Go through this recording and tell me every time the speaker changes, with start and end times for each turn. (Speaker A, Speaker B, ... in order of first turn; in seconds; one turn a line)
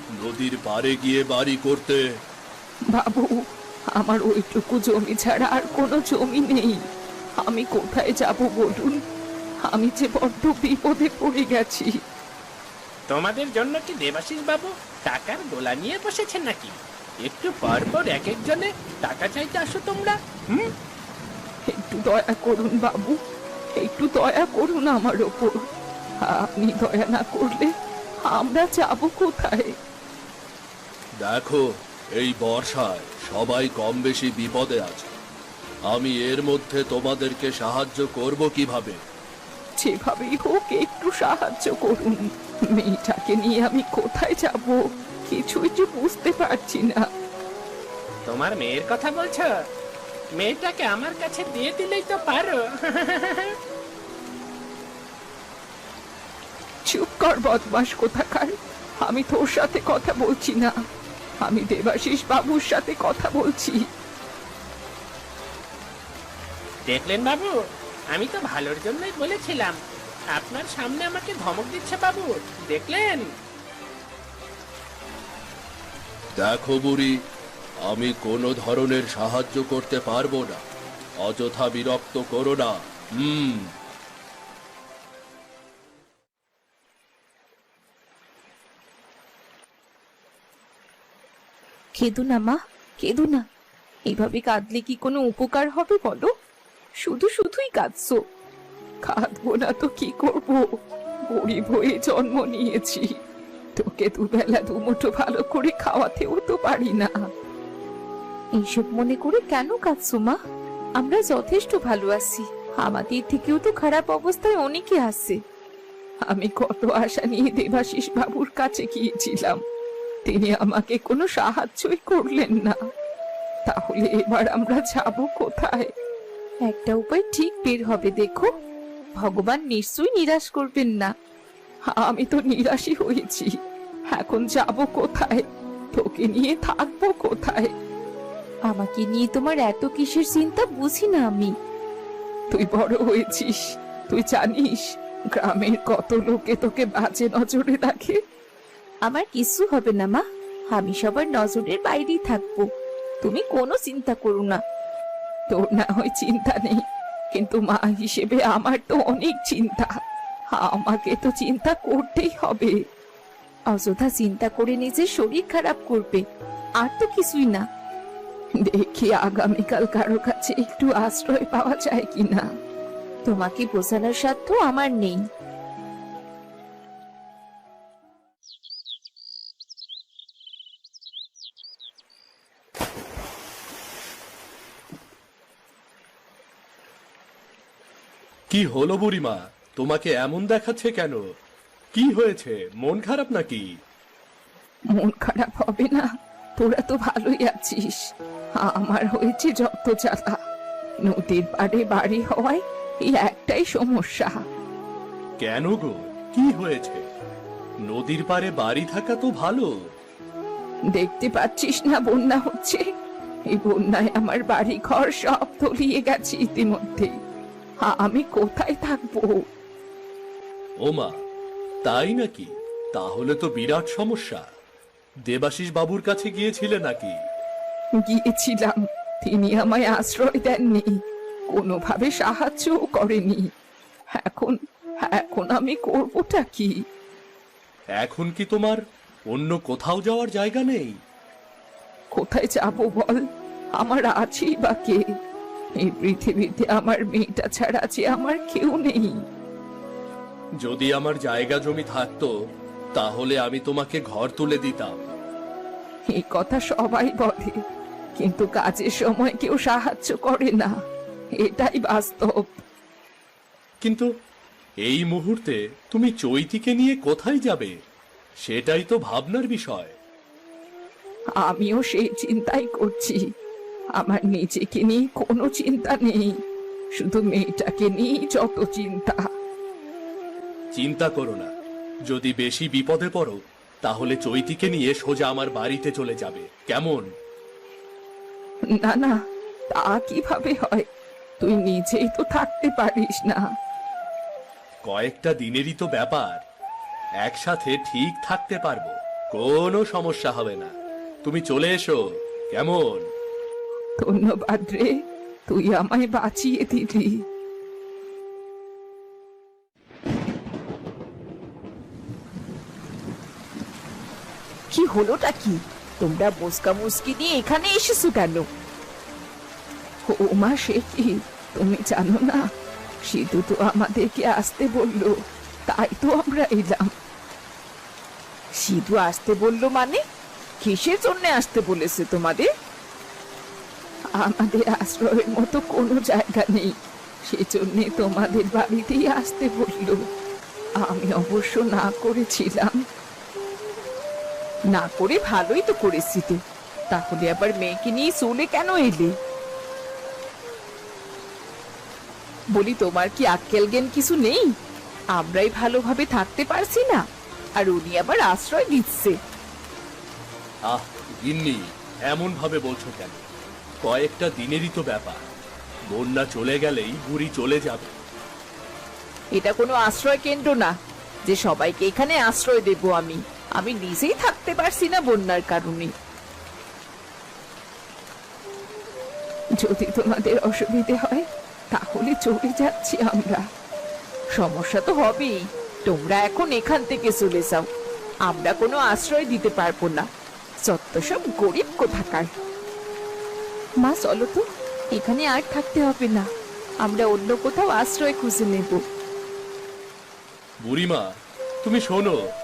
Speaker A: 0.1-2.1
Speaker B: 2.9-6.8
Speaker B: 7.4-9.0
Speaker B: 9.7-12.0
Speaker C: 13.1-20.7
Speaker B: 21.7-23.2
Speaker B: 23.8-25.6
Speaker B: 26.2-27.7
Speaker B: 28.3-29.7
Speaker A: 31.2-35.2
Speaker A: 35.9-39.0
Speaker B: 39.8-47.1
Speaker C: 48.3-49.5
Speaker C: 50.4-53.6
Speaker B: 56.9-60.7
Speaker B: 61.4-63.9
Speaker C: 66.9-69.8
Speaker C: 70.3-73.3
Speaker A: 76.4-77.2
Speaker A: 77.8-80.6
Speaker A: 81.2-83.7
Speaker B: 92.0-93.5
Speaker B: 94.1-96.3
Speaker B: 97.0-98.2
Speaker B: 99.0-100.7
Speaker B: 101.3-103.2
Speaker B: 103.8-107.2
Speaker B: 108.6-110.4
Speaker B: 111.0-115.4
Speaker B: 116.3-119.6
Speaker B: 120.2-122.8
Speaker B: 123.7-125.9
Speaker B: 126.7-128.5
Speaker B: 129.2-131.1
Speaker B: 131.9-133.6
Speaker B: 134.1-137.7
Speaker B: 138.7-141.5
Speaker B: 142.5-148.2
Speaker B: 149.1-152.7
Speaker B: 153.2-154.6
Speaker B: 155.5-159.9
Speaker B: 160.5-162.8
Speaker B: 163.7-166.2
Speaker B: 166.8-167.7
Speaker B: 168.6-172.5
Speaker B: 173.3-175.2
Speaker A: 188.5-191.2
Speaker A: 191.9-193.7
Speaker B: 194.9-198.1
Speaker B: 198.6-200.4
Speaker B: 201.0-204.4
Speaker A: 205.4-207.1
Speaker A: 207.8-209.7
Speaker B: 210.9-212.8
Speaker B: 213.5-217.2
Speaker B: 217.8-219.4
Speaker A: 220.8-221.2
Speaker A: 221.8-224.4
Speaker A: 225.3-227.2
Speaker B: 228.0-231.0
Speaker B: 231.5-233.5
Speaker B: 234.2-236.8
Speaker A: 238.0-241.0
Speaker B: 242.1-243.2
Speaker B: 243.8-245.1
Speaker B: 245.8-249.2
Speaker A: 250.6-252.3
Speaker A: 252.9-255.2
Speaker B: 256.1-257.6
Speaker B: 258.2-260.8
Speaker B: 261.4-262.6
Speaker A: 263.8-264.1
Speaker A: 264.8-267.8
Speaker A: 268.4-270.0
Speaker B: 271.4-273.2
Speaker B: 274.0-276.3
Speaker B: 277.0-279.3
Speaker A: 280.7-281.5
Speaker A: 282.1-287.1
Speaker B: 288.7-289.2
Speaker B: 289.7-290.9
Speaker B: 291.4-293.4
Speaker A: 294.8-296.4
Speaker A: 297.2-300.7
Speaker A: 301.2-303.1
Speaker B: 304.0-304.9
Speaker B: 305.5-307.2
Speaker B: 314.7-318.5
Speaker B: 320.1-322.5
Speaker B: 323.1-325.2
Speaker B: 325.7-326.9
Speaker B: 328.6-330.0
Speaker B: 330.6-332.5
Speaker B: 334.1-336.7
Speaker B: 337.3-340.0
Speaker B: 340.8-342.8
Speaker B: 344.7-346.4
Speaker B: 346.9-349.1
Speaker B: 352.5-354.5
Speaker B: 355.1-357.0
Speaker B: 357.6-359.2
Speaker A: 360.7-363.2
Speaker A: 363.8-365.3
Speaker A: 365.9-367.9
Speaker B: 369.4-370.7
Speaker B: 371.3-375.9
Speaker B: 379.6-383.4
Speaker B: 384.4-387.7
Speaker B: 388.3-390.1
Speaker B: 390.6-392.3
Speaker B: 393.8-396.3
Speaker B: 396.8-398.8
Speaker A: 400.6-401.1
Speaker A: 401.6-402.2